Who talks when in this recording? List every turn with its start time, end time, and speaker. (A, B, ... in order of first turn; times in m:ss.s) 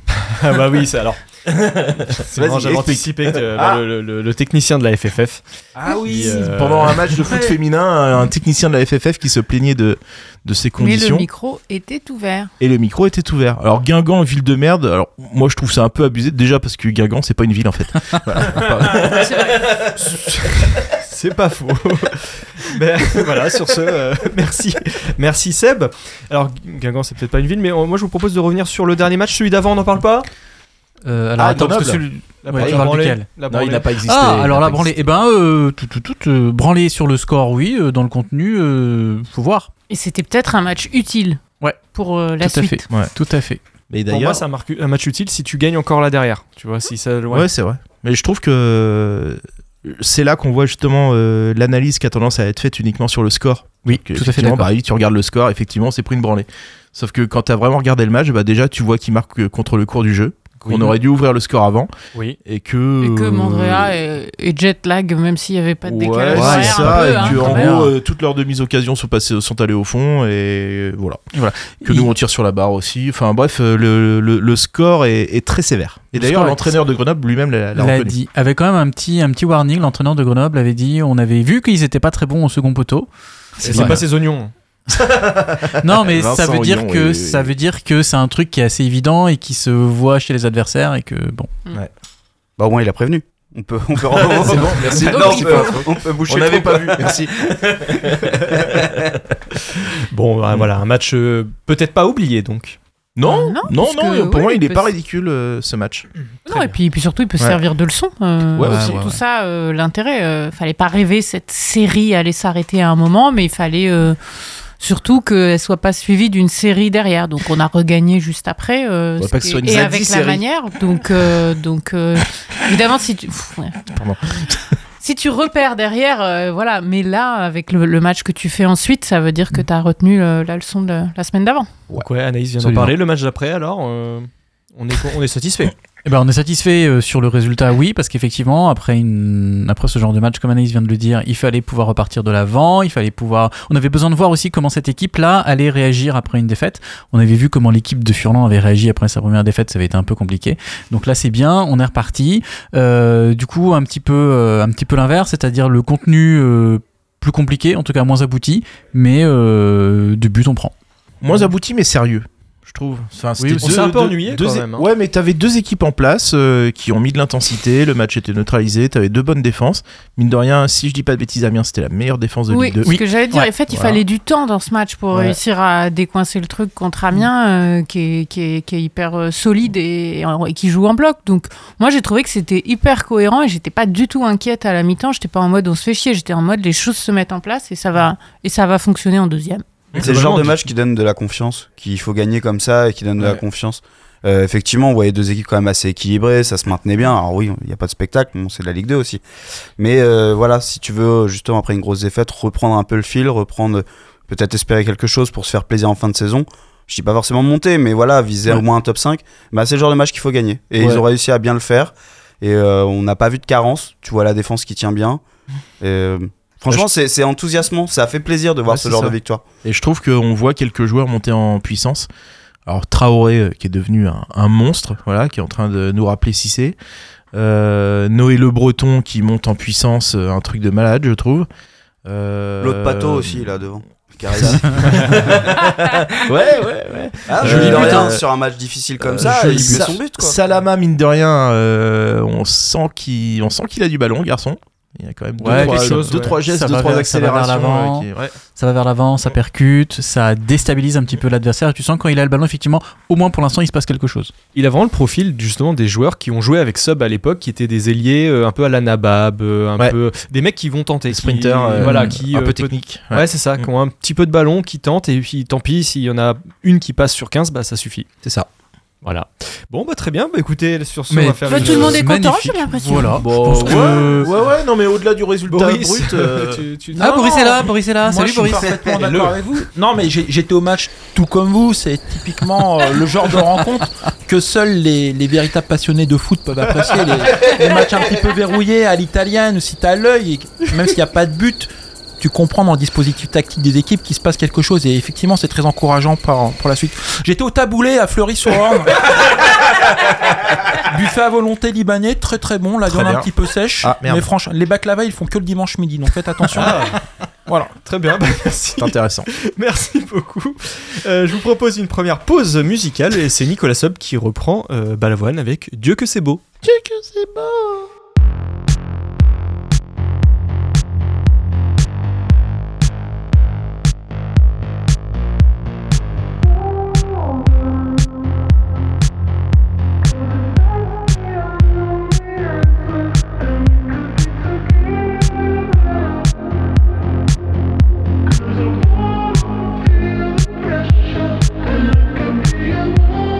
0:00.4-0:01.2 A
0:01.5-0:03.8 B
0:02.3-0:05.4 A
0:05.8-0:11.3 B
0:06.0-0:07.2 A
0:06.0-0:06.4 C
0:10.8-0:12.5 D
0:12.6-0:19.8 B
0:19.0-0:19.6 D
0:19.6-0:30.3 A
0:31.0-0:33.3 E
0:31.4-0:32.0 B
0:32.4-0:33.9 A
0:32.5-0:32.9 B
0:33.5-0:35.1 B
0:34.0-0:39.7 E
0:39.9-0:41.4 D
0:41.9-0:42.8 D
0:42.4-0:43.6 E
0:43.9-0:44.4 B
0:44.1-0:47.5 A
0:47.3-1:01.9 B
0:53.8-0:54.7 E
1:00.7-1:00.9 E
1:02.4-1:04.0 B
1:03.0-1:07.7 D
1:05.8-1:18.2 B
1:06.3-1:08.0 E
1:11.4-1:12.1 E
1:16.1-1:16.7 E
1:17.8-1:23.1 E
1:23.6-1:24.0 E
1:23.6-1:24.5 A
1:23.7-1:24.0 B
1:25.0-1:27.5 B
1:25.8-1:31.5 E
1:32.6-1:37.2 F
1:34.1-1:39.2 B
1:35.1-1:35.9 D
1:40.1-1:42.8 A
1:43.2-1:46.1 B
1:43.2-1:44.9 D
1:46.5-1:54.2 D
1:48.6-1:49.1 B
1:48.6-1:49.1 E
1:54.8-2:03.8 D
1:59.2-2:00.4 B
2:03.9-2:04.6 B
2:05.0-2:11.7 D
2:12.0-2:15.7 A
2:12.6-2:12.9 B
2:16.0-2:40.7 E
2:41.2-2:53.0 B
2:43.4-2:43.9 E
2:43.6-2:44.9 A
2:52.5-3:09.6 D
2:52.8-2:53.5 E
3:09.9-3:10.6 A
3:10.0-3:19.2 F
3:19.8-3:35.2 F
3:30.8-3:31.0 B
3:35.8-3:39.4 F
3:38.7-3:42.1 B
3:42.6-3:46.8 B
3:47.3-3:51.5 B
3:52.0-3:53.5 B
3:52.6-3:55.5 F
3:54.3-3:58.2 B
3:57.2-4:00.4 F
3:57.4-3:58.0 A
3:57.5-3:58.0 E
3:59.0-4:08.3 B
3:59.4-3:59.8 A
4:05.4-4:14.3 E
4:05.4-4:06.4 A
4:14.5-4:28.1 A
4:21.1-4:23.6 B
4:21.8-4:22.1 E
4:29.0-4:32.0 A
4:31.1-4:34.3 E
4:31.5-4:33.2 D
4:33.2-4:36.6 B
4:35.5-4:37.3 A
4:37.0-4:38.8 E
4:37.0-4:59.4 C
5:00.8-5:07.0 C
5:02.9-5:03.3 B
5:03.8-5:04.3 B
5:06.5-5:07.0 A
5:07.8-5:16.4 A
5:08.8-5:09.3 B
5:16.6-5:17.9 B